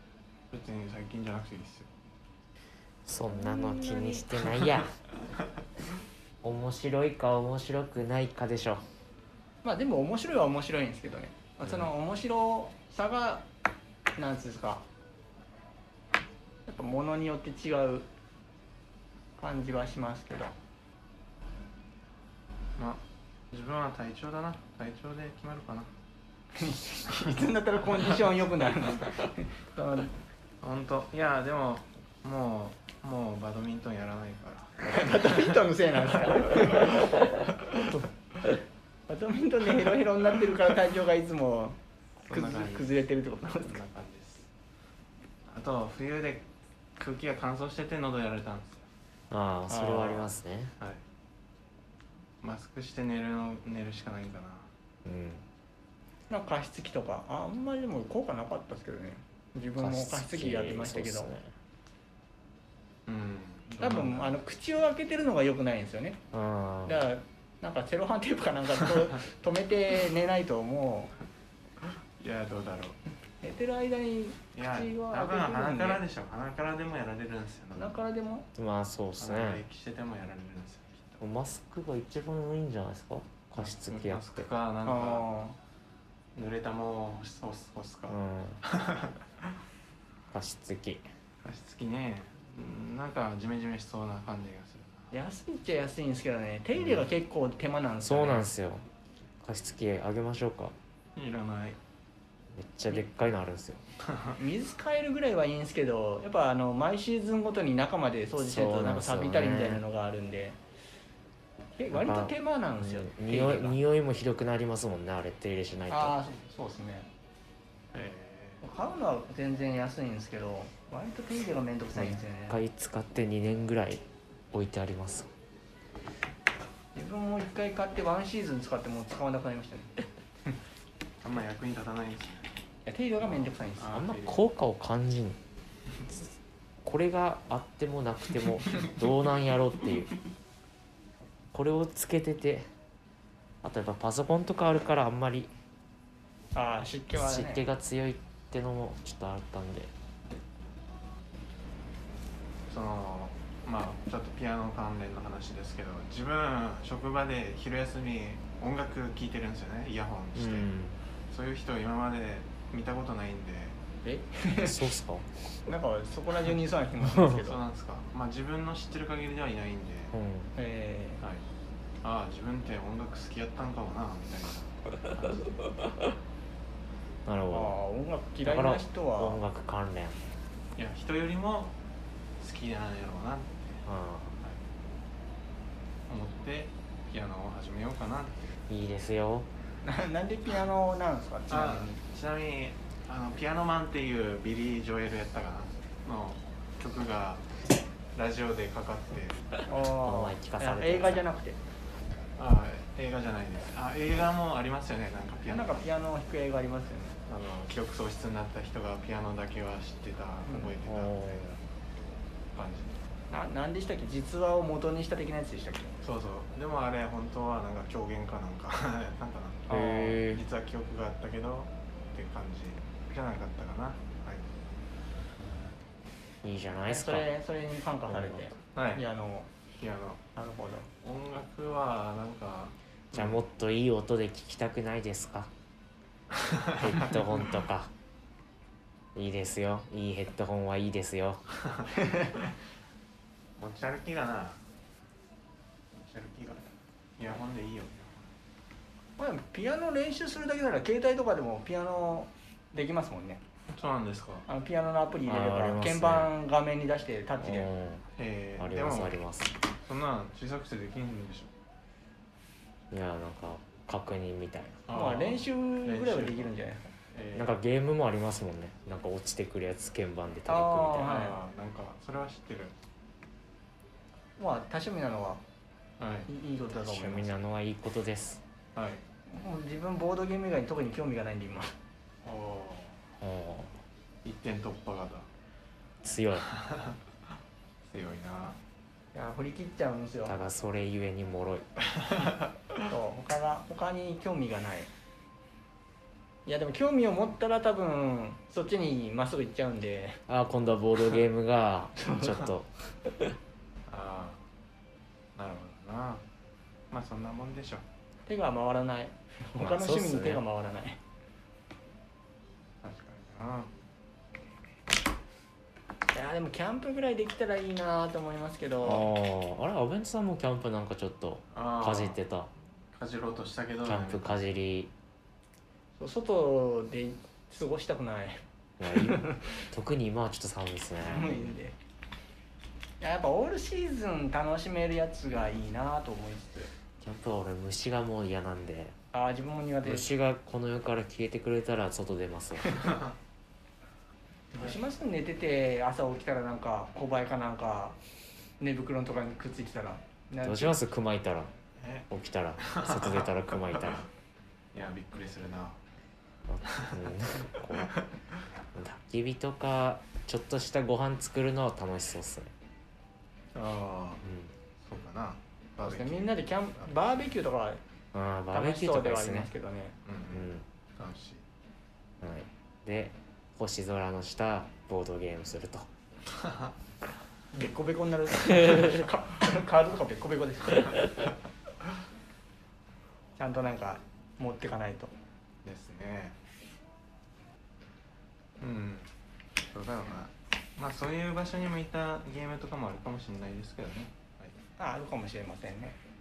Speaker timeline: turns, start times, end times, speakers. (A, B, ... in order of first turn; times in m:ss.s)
0:00.5-0:01.9 A
0:03.0-0:04.9 B
0:03.3-0:04.7 C
0:06.4-0:08.8 B
0:09.6-0:13.4 C
0:14.2-0:14.8 C
0:16.7-0:18.1 C
0:19.4-0:20.5 C
0:22.8-0:25.9 A
0:26.6-0:30.1 C
0:30.6-0:35.2 A
0:34.8-0:38.5 C
0:39.1-0:41.8 C
0:42.2-0:42.9 A
0:42.3-0:43.8 C
0:43.6-0:44.5 A
0:45.5-0:46.4 A
0:47.0-0:48.8 A
0:49.3-0:50.8 B
0:49.7-0:50.3 C
0:52.4-0:54.7 A
0:55.0-0:55.4 B
0:56.3-1:01.3 C
0:59.8-1:01.5 B
1:03.1-1:04.4 A
1:03.8-1:06.2 C
1:06.3-1:07.0 B
1:06.8-1:11.1 C
1:12.2-1:13.0 A
1:13.4-1:16.0 C
1:14.5-1:18.0 A
1:17.8-1:18.5 C
1:18.5-1:19.6 B
1:19.2-1:21.2 A
1:21.2-1:24.4 B
1:23.6-1:25.3 A
1:24.8-1:25.6 C
1:26.4-1:29.2 A
1:28.1-1:28.6 B
1:30.3-1:31.0 B
1:31.4-1:35.1 A
1:35.1-1:38.5 C
1:38.0-1:38.8 B
1:39.4-1:40.7 B
1:41.2-1:41.8 A
1:42.5-1:43.8 B
1:44.1-1:44.4 A
1:44.4-1:50.6 C
1:48.4-1:49.8 B
1:51.8-1:53.8 C
1:51.9-1:56.2 B
1:55.9-1:57.1 C
1:57.9-1:58.6 A
1:58.6-2:02.6 C
2:01.9-2:05.3 B
2:06.9-2:09.9 C
2:11.2-2:12.5 A
2:12.8-2:14.0 C
2:13.2-2:14.4 A
2:13.9-2:15.4 B
2:16.8-2:20.1 B
2:21.5-2:22.6 B
2:23.6-2:25.5 B
2:26.5-2:27.6 C
2:27.1-2:29.9 B
2:32.7-2:40.7 A
2:40.3-2:41.0 B
2:41.3-2:43.8 A
2:44.0-2:44.9 C
2:44.6-2:45.3 B
2:45.6-2:47.6 C
2:47.2-2:50.1 A
2:50.1-2:50.5 B
2:50.6-2:51.2 C
2:52.0-2:55.6 A
2:57.2-2:57.8 B
2:57.5-2:59.4 C
2:58.4-3:00.2 B
3:00.8-3:01.7 A
3:02.4-3:03.8 A
3:03.8-3:04.4 B
3:06.1-3:08.5 A
3:08.7-3:09.5 B
3:09.8-3:12.0 C
3:11.5-3:17.4 A
3:18.1-3:19.4 A
3:19.6-3:21.6 C
3:20.0-3:21.2 B
3:22.4-3:25.8 A
3:25.4-3:27.2 C
3:27.3-3:31.6 A
3:30.8-3:31.4 B
3:32.5-3:33.1 A
3:33.3-3:35.9 C
3:36.0-3:44.4 A
3:39.7-3:40.2 C
3:39.7-3:40.4 B
3:46.4-3:47.3 B
3:46.9-3:49.5 C
3:48.1-3:48.4 B
3:48.7-3:49.0 A
3:49.8-3:50.2 A
3:50.4-3:50.9 C
3:51.0-3:53.4 A
3:53.1-3:55.5 B
3:56.3-3:57.2 A
3:56.8-3:57.9 B
3:59.1-4:01.4 B
4:03.6-4:04.6 A
4:06.0-4:06.6 A
4:07.2-4:08.3 A
4:09.2-4:13.4 C
4:13.7-4:14.4 A
4:14.5-4:17.7 C
4:15.2-4:16.3 B
4:17.4-4:18.0 B
4:18.2-4:19.2 A
4:18.6-4:19.6 B
4:19.8-4:21.5 A
4:22.9-4:24.8 B
4:24.9-4:26.5 A
4:24.9-4:26.9 C
4:27.1-4:27.5 A
4:27.4-4:31.2 B
4:30.5-4:31.4 C
4:31.0-4:32.8 A
4:34.4-4:35.4 C
4:36.0-4:36.3 A
4:36.3-4:37.4 C
4:36.7-4:38.4 B
4:38.8-4:39.0 A
4:39.3-4:41.7 C
4:42.2-4:43.0 A
4:43.2-4:43.8 B
4:44.2-4:45.3 A
4:46.0-4:46.5 B
4:46.5-4:47.0 A
4:47.9-4:48.6 A
4:49.1-4:50.4 C
4:50.2-4:51.7 B
4:52.8-4:54.9 C
4:56.4-5:00.2 C
5:00.3-5:03.3 B
5:02.0-5:02.4 C
5:03.9-5:04.4 A
5:05.4-5:06.2 A
5:06.9-5:07.8 A
5:08.2-5:11.0 C
5:09.6-5:10.4 B
5:12.8-5:13.7 A
5:16.1-5:19.1 C
5:18.8-5:22.5 B
5:21.5-5:22.2 A
5:22.9-5:24.4 A
5:23.8-5:24.9 B
5:26.0-5:28.4 C
5:28.8-5:31.5 B
5:28.9-5:29.6 C
5:31.0-5:31.8 C
5:33.0-5:36.7 C
5:37.0-5:39.0 B
5:39.1-5:40.1 C
5:39.8-5:42.9 B
5:44.5-5:48.0 C
5:48.6-5:50.8 C
5:50.4-5:51.5 B
5:51.8-5:52.1 A
5:52.1-5:54.1 B
5:52.6-5:53.4 A
5:54.7-5:55.8 A
5:56.5-5:57.9 B
5:56.7-5:57.0 A
5:57.8-5:58.0 A
5:58.7-6:02.5 B
6:03.5-6:04.2 A
6:04.2-6:04.5 B
6:04.8-6:06.9 A
6:05.8-6:07.8 C
6:08.1-6:09.5 B
6:08.5-6:10.0 C
6:10.0-6:11.4 A
6:10.3-6:10.6 B
6:12.2-6:15.9 B
6:16.3-6:16.7 A
6:17.5-6:21.1 C
6:23.4-6:25.1 C
6:25.6-6:26.4 A
6:28.6-6:29.1 A
6:29.7-6:34.5 A
6:34.8-6:36.0 C